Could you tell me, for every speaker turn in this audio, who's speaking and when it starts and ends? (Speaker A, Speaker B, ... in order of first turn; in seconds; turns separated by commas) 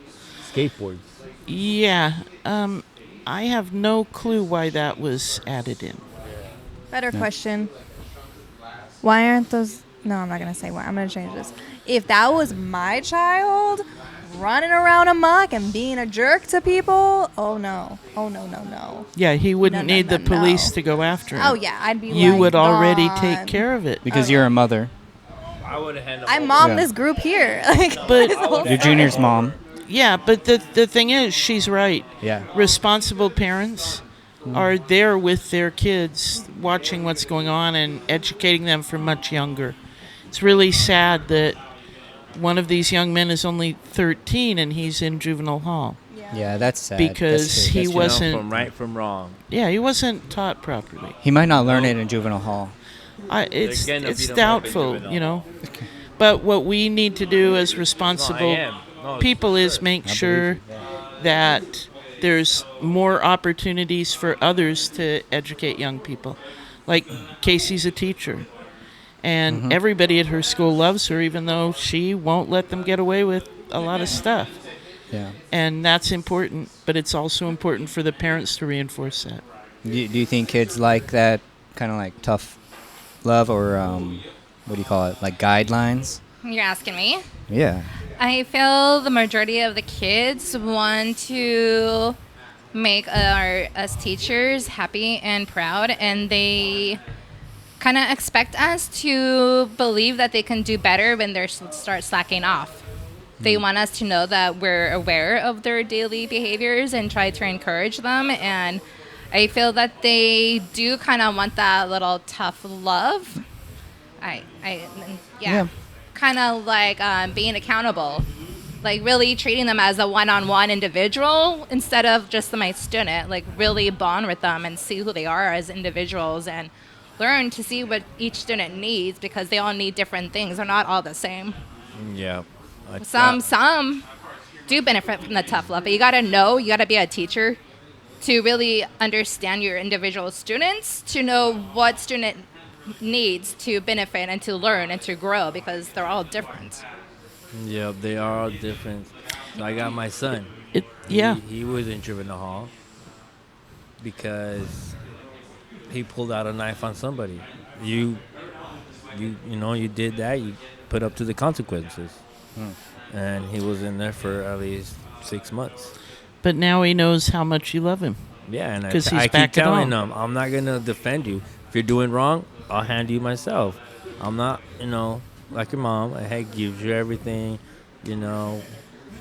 Speaker A: 0.4-1.0, Speaker B: 1.5-6.0, Speaker C: 6.9-7.7, Speaker C: 9.0-19.1, Speaker B: 19.1-24.0, Speaker C: 19.6-20.7, Speaker C: 21.3-24.5, Speaker D: 24.0-24.9, Speaker A: 25.6-26.9, Speaker C: 26.2-29.2, Speaker D: 26.6-26.9, Speaker A: 27.9-29.6, Speaker B: 28.1-28.4, Speaker D: 28.6-29.6, Speaker B: 29.8-39.8, Speaker D: 32.2-32.5, Speaker D: 34.5-34.7, Speaker B: 40.3-41.6, Speaker B: 42.3-46.0, Speaker C: 46.1-46.4, Speaker D: 46.3-48.6, Speaker B: 47.0-48.5, Speaker A: 47.8-49.4, Speaker B: 49.5-51.1, Speaker D: 51.2-52.7, Speaker A: 51.5-52.0, Speaker B: 53.3-55.5, Speaker A: 53.6-55.4, Speaker B: 56.2-60.6, Speaker A: 58.1-59.8, Speaker D: 60.0-60.6, Speaker B: 61.2-68.5, Speaker B: 69.2-74.6, Speaker D: 69.5-69.8, Speaker B: 75.5-79.4, Speaker D: 79.8-82.5, Speaker D: 83.2-86.2, Speaker E: 86.4-87.2, Speaker D: 87.5-87.9, Speaker E: 88.2-92.2, Speaker E: 92.7-97.0, Speaker E: 97.8-102.8, Speaker E: 103.4-113.4, Speaker E: 114.2-118.2, Speaker E: 118.8-131.5, Speaker A: 131.9-133.4, Speaker E: 133.0-134.0, Speaker E: 134.7-137.6, Speaker E: 138.2-142.4, Speaker E: 143.0-146.8, Speaker A: 147.5-150.5, Speaker B: 150.7-151.4, Speaker A: 151.1-152.7, Speaker A: 154.0-154.9, Speaker A: 155.9-158.2, Speaker A: 159.1-162.2, Speaker A: 163.1-165.9, Speaker B: 166.4-168.2, Speaker A: 168.5-178.6, Speaker B: 168.8-169.9